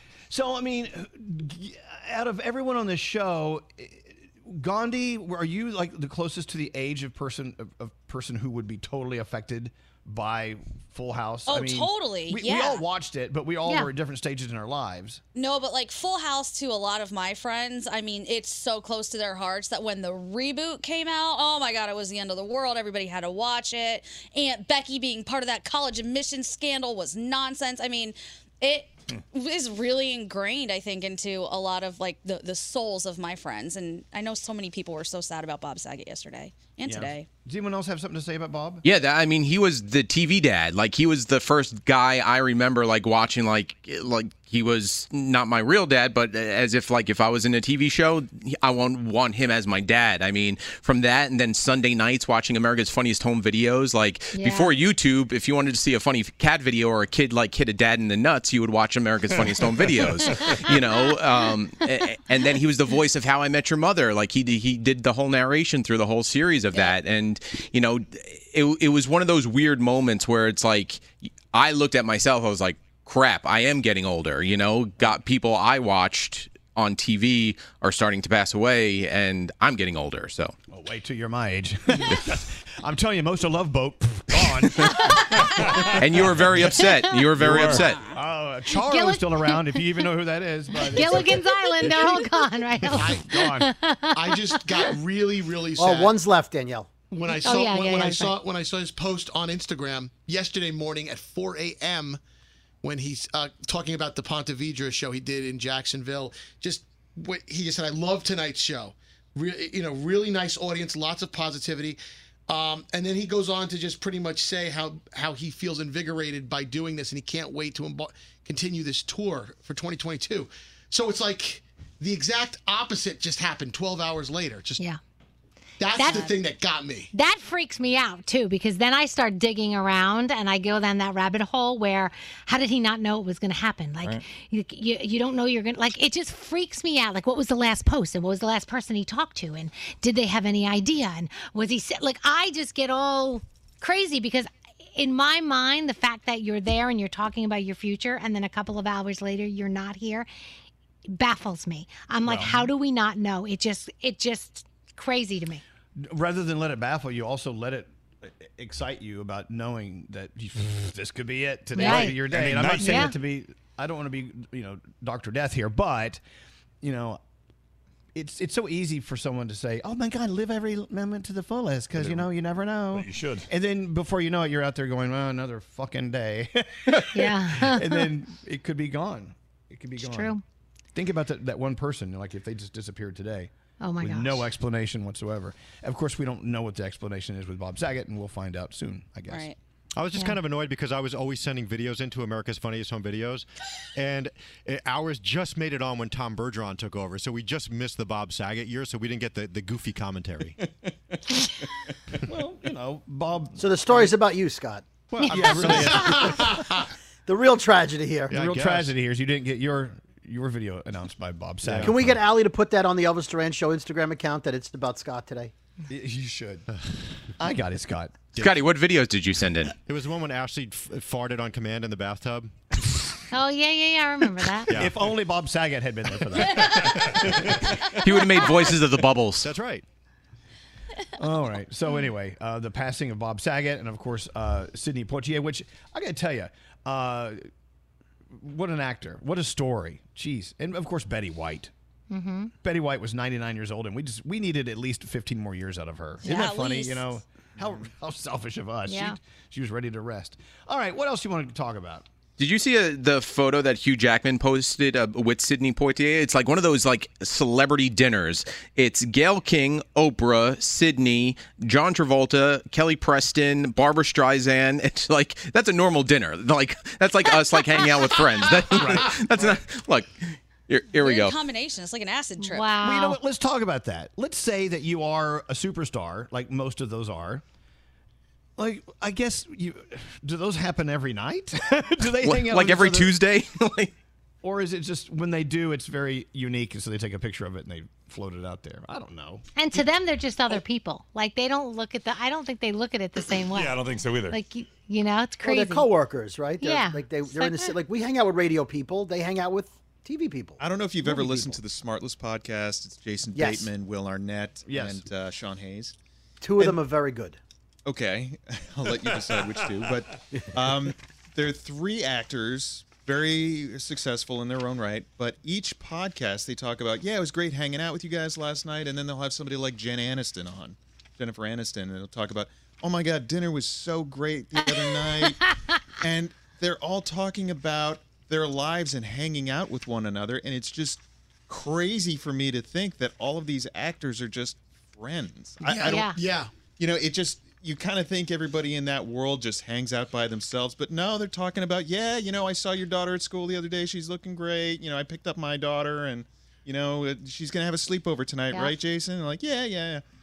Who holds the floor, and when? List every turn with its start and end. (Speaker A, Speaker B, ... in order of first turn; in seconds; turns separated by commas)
Speaker A: 0.3-15.2, Speaker B: 11.5-12.8, Speaker B: 15.3-37.2, Speaker A: 36.8-38.9, Speaker C: 38.8-80.5, Speaker D: 54.3-54.8, Speaker A: 80.7-85.2, Speaker C: 84.4-85.1, Speaker C: 85.9-88.0, Speaker D: 86.9-87.2, Speaker E: 87.3-87.9, Speaker A: 88.1-91.4, Speaker D: 88.7-90.1, Speaker D: 90.8-94.8, Speaker A: 92.8-93.7, Speaker F: 92.9-96.2, Speaker G: 95.8-96.9, Speaker F: 97.1-102.2, Speaker D: 97.3-98.4, Speaker F: 102.8-124.8, Speaker F: 125.8-127.1, Speaker D: 125.9-126.3, Speaker B: 126.0-126.4, Speaker D: 127.1-150.3, Speaker D: 151.1-155.6, Speaker A: 152.2-152.7, Speaker A: 156.0-166.2, Speaker D: 161.7-162.2, Speaker E: 161.8-163.0, Speaker D: 162.8-163.1, Speaker A: 166.8-167.2, Speaker A: 168.1-180.3, Speaker E: 172.0-172.2, Speaker E: 172.9-173.4, Speaker D: 177.1-178.1, Speaker D: 180.0-180.4, Speaker A: 180.9-189.5, Speaker D: 183.8-184.5, Speaker B: 189.3-189.6, Speaker H: 189.9-200.6, Speaker D: 190.1-190.4, Speaker A: 202.3-204.1, Speaker G: 203.6-204.8, Speaker A: 205.1-206.5, Speaker D: 205.2-206.1, Speaker E: 205.4-205.7, Speaker G: 205.4-205.9, Speaker F: 205.9-206.9, Speaker G: 207.2-208.3, Speaker H: 208.3-208.9, Speaker A: 208.3-212.2, Speaker G: 211.7-215.5, Speaker A: 215.9-216.6, Speaker A: 217.4-218.2, Speaker H: 218.3-218.7, Speaker C: 218.4-219.7, Speaker H: 219.8-222.5, Speaker D: 223.3-224.7, Speaker H: 224.7-224.9, Speaker A: 224.7-227.3, Speaker C: 228.0-229.5, Speaker H: 229.3-229.8, Speaker A: 231.2-237.4, Speaker A: 238.3-241.7, Speaker D: 242.1-242.5, Speaker A: 242.6-252.1, Speaker B: 246.2-247.1, Speaker D: 248.8-249.2, Speaker C: 252.4-271.4, Speaker A: 268.7-269.5, Speaker B: 271.0-272.8, Speaker D: 272.4-273.2, Speaker A: 272.8-277.4, Speaker A: 278.6-283.2, Speaker C: 282.2-283.9, Speaker A: 284.4-289.4, Speaker D: 289.6-295.9, Speaker E: 293.4-294.4, Speaker G: 295.4-300.6, Speaker D: 296.6-297.7, Speaker E: 300.6-305.9, Speaker G: 301.2-301.5, Speaker G: 303.3-303.7, Speaker A: 304.6-305.0, Speaker G: 306.4-307.4, Speaker E: 307.8-325.4, Speaker D: 324.7-325.5, Speaker E: 326.0-350.0, Speaker F: 335.6-336.5, Speaker D: 335.8-336.2